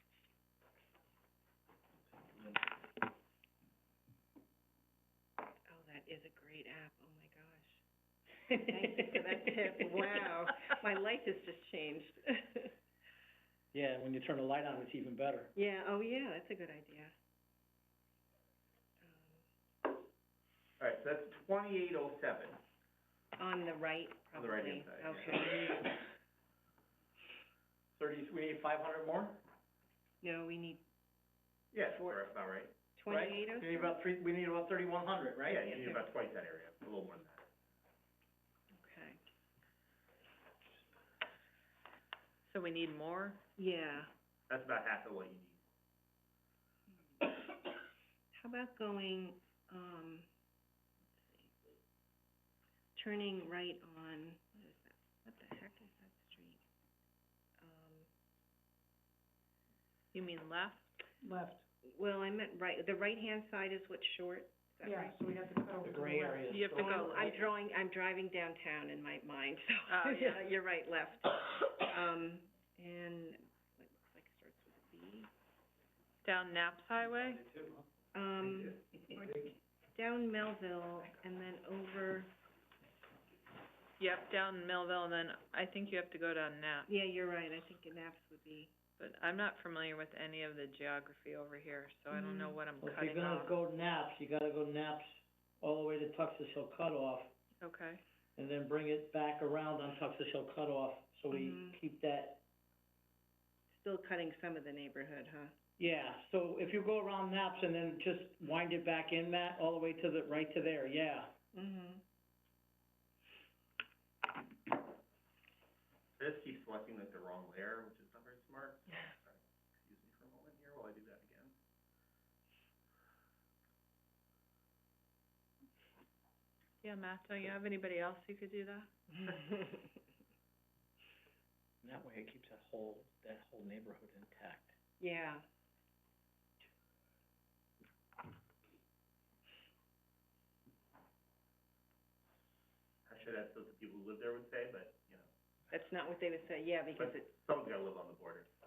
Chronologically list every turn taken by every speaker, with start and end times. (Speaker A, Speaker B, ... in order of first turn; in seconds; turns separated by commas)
Speaker A: 5.7-7.8, Speaker A: 8.5-12.7, Speaker B: 13.7-15.5, Speaker A: 15.5-17.1, Speaker A: 19.0-19.4, Speaker C: 20.8-22.6, Speaker A: 23.4-26.0, Speaker C: 24.3-25.7, Speaker B: 28.0-29.4, Speaker A: 30.2-30.8, Speaker C: 31.7-32.8, Speaker A: 31.9-32.3, Speaker A: 33.0-34.0, Speaker B: 33.1-36.0, Speaker C: 35.5-37.5, Speaker A: 38.7-39.2, Speaker D: 42.5-43.4, Speaker A: 43.6-44.1, Speaker C: 44.5-45.6, Speaker A: 46.9-47.2, Speaker A: 48.3-50.3, Speaker A: 51.2-51.5, Speaker A: 53.0-56.6, Speaker A: 57.6-58.1, Speaker D: 60.1-61.0, Speaker E: 61.2-61.6, Speaker A: 61.8-65.2, Speaker E: 64.8-66.6, Speaker B: 65.8-67.5, Speaker D: 66.5-67.3, Speaker A: 66.6-75.3, Speaker D: 69.9-70.5, Speaker D: 76.2-77.4, Speaker C: 77.6-77.8, Speaker A: 78.1-82.3, Speaker D: 84.0-86.9, Speaker A: 86.9-88.7, Speaker D: 89.0-93.5, Speaker A: 92.1-92.6, Speaker B: 92.8-97.3, Speaker D: 97.6-98.0, Speaker B: 98.4-102.4, Speaker A: 101.3-101.8, Speaker A: 103.7-105.5, Speaker B: 105.8-111.3, Speaker A: 111.5-112.0, Speaker C: 116.2-121.5, Speaker D: 126.8-129.3, Speaker B: 131.8-134.8, Speaker A: 135.0-135.4, Speaker C: 143.1-145.3, Speaker A: 145.7-147.3, Speaker C: 146.9-148.5